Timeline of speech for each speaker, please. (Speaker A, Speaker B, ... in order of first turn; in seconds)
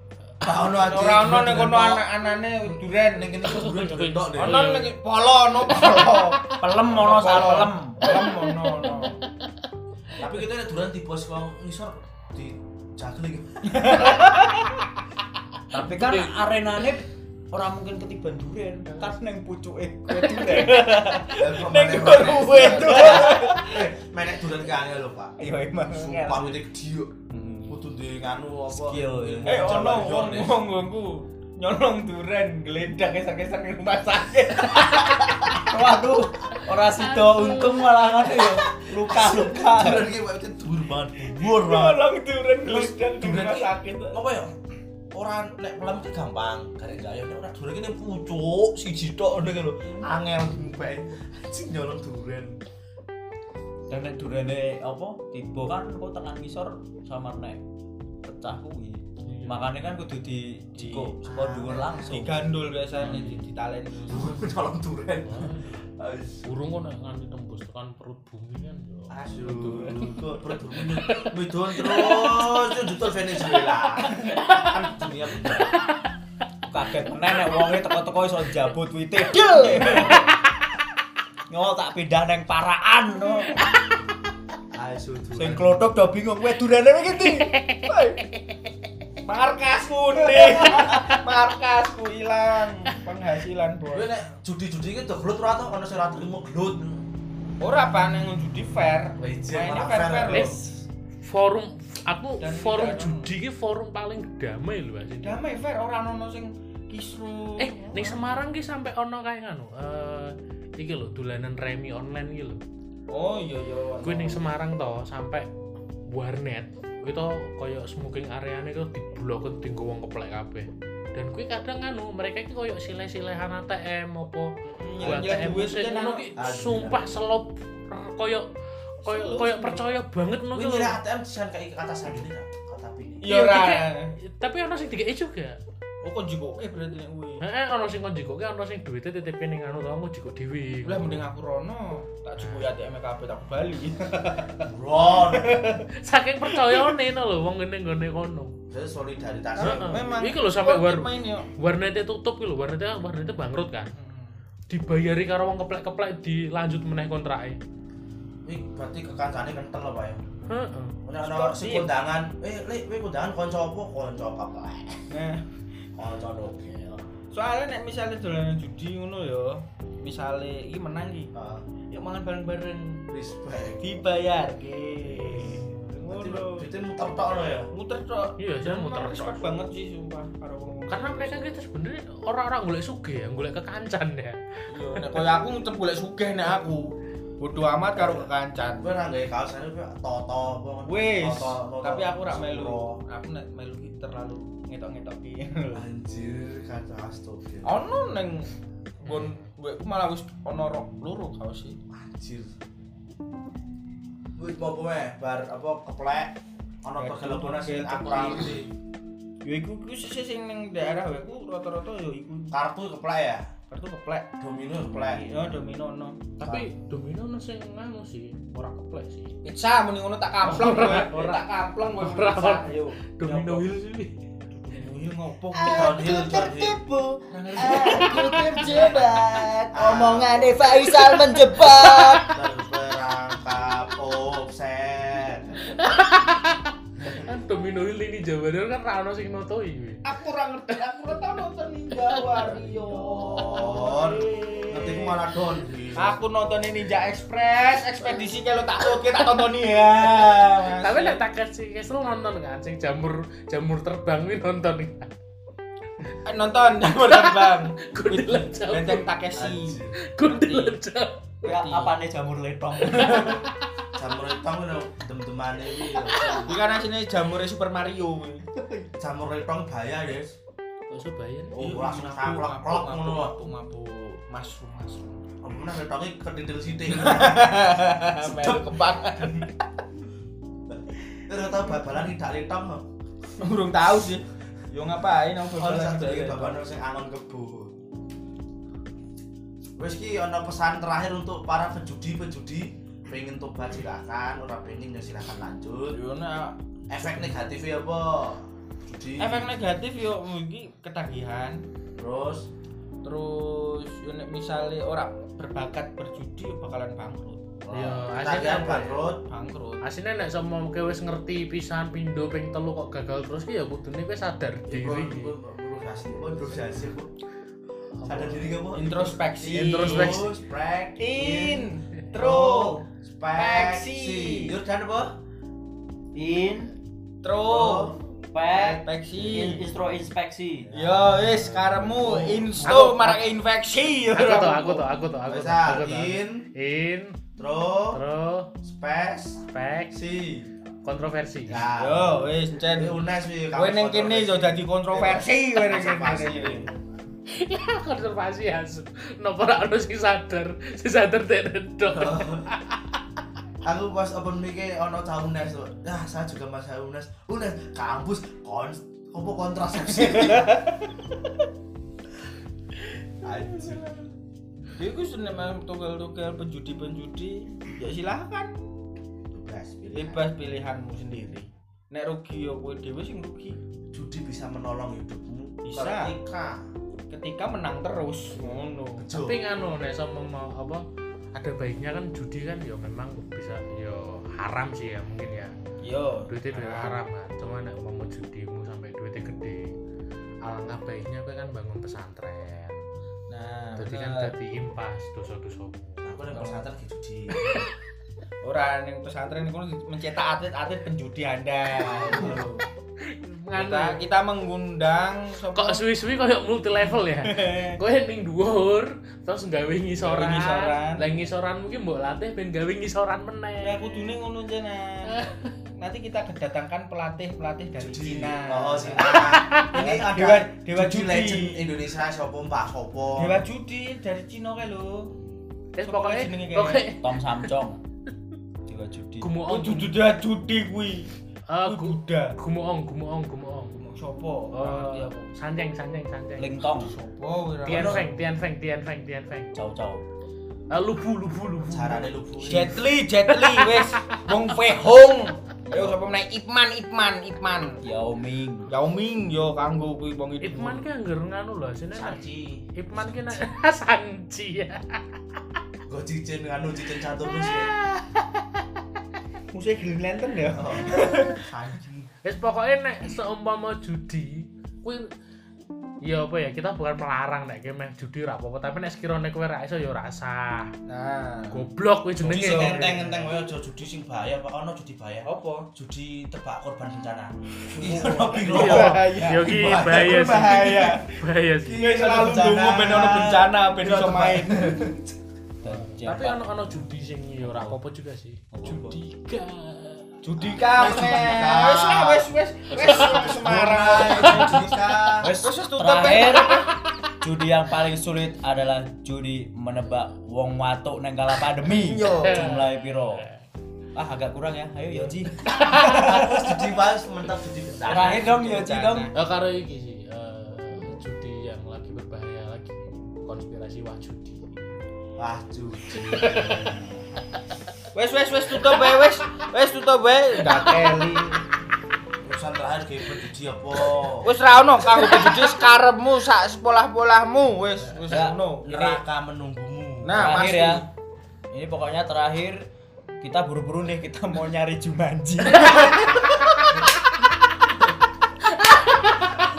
Speaker A: 0.4-2.0, 3.1-4.7, 10.2-14.2, 21.4-30.6, 38.2-42.1, 42.6-44.5, 45.1-52.5, 61.2-62.2, 63.0-63.3, 64.1-66.5, 69.1-75.7, 84.7-85.8, 93.9-97.1, 99.2-100.6, 125.0-125.5, 126.4-127.0, 130.5-133.3, 144.6-145.6, 148.7-150.0, 158.4-160.2, 161.0-165.1, 165.9-167.0, 171.3-171.7, 173.1-173.8, 175.1-177.7, 187.9-188.3, 188.8-193.0, 195.7-197.8, 201.9-202.5, 204.4-208.7, 212.5-213.5, 214.4-215.2, 216.4-216.7, 225.7-226.8, 228.6-229.1, 229.7-230.8, 231.9-235.6, 242.9-246.2, 259.3-259.9, 263.9-266.6, 269.0-270.4, 271.5-273.3, 275.4-279.4, 280.7-282.9, 285.6-287.7, 289.8-296.0, 296.9-299.5, 301.9-302.5, 307.6-309.2, 314.7-317.1, 318.0-325.2, 327.4-328.0, 330.7-333.1, 335.2-336.5, 337.4-338.0, 338.6-340.5, 341.5-346.7, 351.9-352.5, 353.6-360.7, 363.2-364.0, 369.3-370.3, 373.9-376.6, 379.0-379.4, 396.0-397.6, 401.9-402.5, 417.8-423.4, 437.6-438.1, 441.7-442.8, 451.9-453.5, 455.9-457.8, 460.5-462.1, 472.2-481.0, 481.6-485.1, 490.5-492.3, 492.8-495.3, 505.5-508.3, 515.2-517.0, 522.2-524.3, 528.6-530.4
Speaker B: 0.8-3.4, 4.4-9.2, 13.7-14.9, 20.3-23.8, 29.4-35.0, 41.4-44.2, 60.8-61.1, 62.1-64.5, 79.3-80.2, 87.9-88.2, 89.2-94.0, 97.6-100.6, 102.4-103.3, 105.2-108.2, 113.1-114.4, 124.7-126.2, 129.0-129.9, 133.2-134.1, 136.0-137.4, 140.8-145.8, 146.5-146.9, 149.6-151.5, 153.9-154.4, 161.2-161.9, 165.1-165.5, 167.3-171.3, 171.9-173.0, 173.8-176.7, 177.7-181.4, 184.7-188.9, 190.8-195.8, 197.6-198.5, 199.0-201.8, 207.0-208.6, 209.4-212.6, 213.7-214.3, 215.0-216.2, 219.4-223.7, 224.5-226.1, 227.3-228.9, 240.0-245.2, 245.9-251.2, 256.2-260.8, 261.4-261.9, 266.4-268.4, 271.5-275.2, 276.9-279.6, 283.4-286.6, 295.9-296.6, 299.2-301.6, 303.0-307.4, 309.2-309.8, 318.7-320.2, 321.0-322.8, 323.3-324.6, 327.2-327.9, 328.5-329.6, 330.7-334.9, 341.5-343.0, 343.5-346.7, 359.9-360.9, 363.5-364.0, 364.7-368.5, 369.9-373.6, 375.6-376.1, 377.1-379.1, 385.8-387.0, 393.3-394.3, 396.3-396.7, 398.4-402.6, 403.5-405.8, 407.2-407.8, 409.9-411.0, 413.6-415.2, 415.8-421.7, 423.1-425.1, 425.9-426.8, 429.5-431.1, 431.6-432.4, 433.8-435.3, 436.8-438.0, 442.4-447.8, 448.7-450.8, 459.5-461.5, 470.9-471.6, 475.2-475.7, 477.7-481.1, 481.8-484.8, 490.2-496.7, 501.7-502.4, 507.8-509.1, 517.9-521.4, 524.2-529.0, 530.0-530.9, 535.4-536.4
Speaker C: 3.4-4.9, 5.7-6.5, 8.0-9.5, 15.9-16.3, 18.9-19.2, 20.2-20.7, 59.2-59.6, 63.0-63.3, 65.2-65.8, 66.4-70.2, 70.8-72.6, 87.2-88.4, 90.7-91.2, 100.3-105.4, 107.6-112.6, 114.0-115.5, 116.1-128.5, 129.0-131.0, 133.3-135.6, 137.4-141.2, 142.4-142.7, 145.9-148.5, 149.6-153.9, 154.7-157.6, 160.5-160.9, 178.4-179.4, 180.9-184.4, 184.9-185.2, 199.0-199.4, 216.4-219.3, 220.4-221.4, 222.0-222.6, 223.2-224.2, 235.6-240.0, 242.1-242.4, 250.8-255.1, 256.9-259.1, 260.1-261.2, 262.9-263.4, 265.9-266.5, 270.9-271.6, 307.7-309.0, 309.8-315.3, 318.0-318.5, 319.5-320.3, 334.1-337.2, 337.9-338.5, 339.5-340.0, 340.8-341.6, 347.3-352.8, 379.1-385.5, 386.3-389.8, 390.4-392.8, 393.8-396.3, 403.1-404.0, 405.5-414.1, 415.1-415.5, 419.1-419.7, 425.7-427.5, 429.2-430.0, 431.5-433.8, 434.5-436.6, 437.6-439.5, 440.7-442.6, 443.3-444.2, 450.4-452.2, 452.8-455.1, 462.2-465.1, 466.0-470.7, 471.5-473.3, 478.4-482.0, 485.6-490.1, 494.1-494.8, 502.1-503.4, 505.5-506.0, 509.1-514.4, 516.0-516.7, 538.6-539.4
Speaker D: 6.6-8.1, 15.7-23.7, 25.4-26.6, 27.3-27.8, 28.7-29.9, 34.7-40.1, 53.9-57.6, 58.2-62.5, 76.7-80.3, 81.5-83.7, 85.3-87.5, 225.5-232.4, 261.4-263.4, 268.6-268.9, 326.1-326.7, 328.3-330.7, 426.9-427.8, 428.6-429.3, 436.4-436.9, 439.5-440.0, 445.6-446.0, 447.8-448.7, 485.6-486.4, 487.4-487.8, 488.5-489.0, 492.7-493.4, 495.2-503.2, 503.9-506.6, 507.8-509.1, 528.1-528.4, 530.1-530.8, 531.5-532.6, 533.2-536.0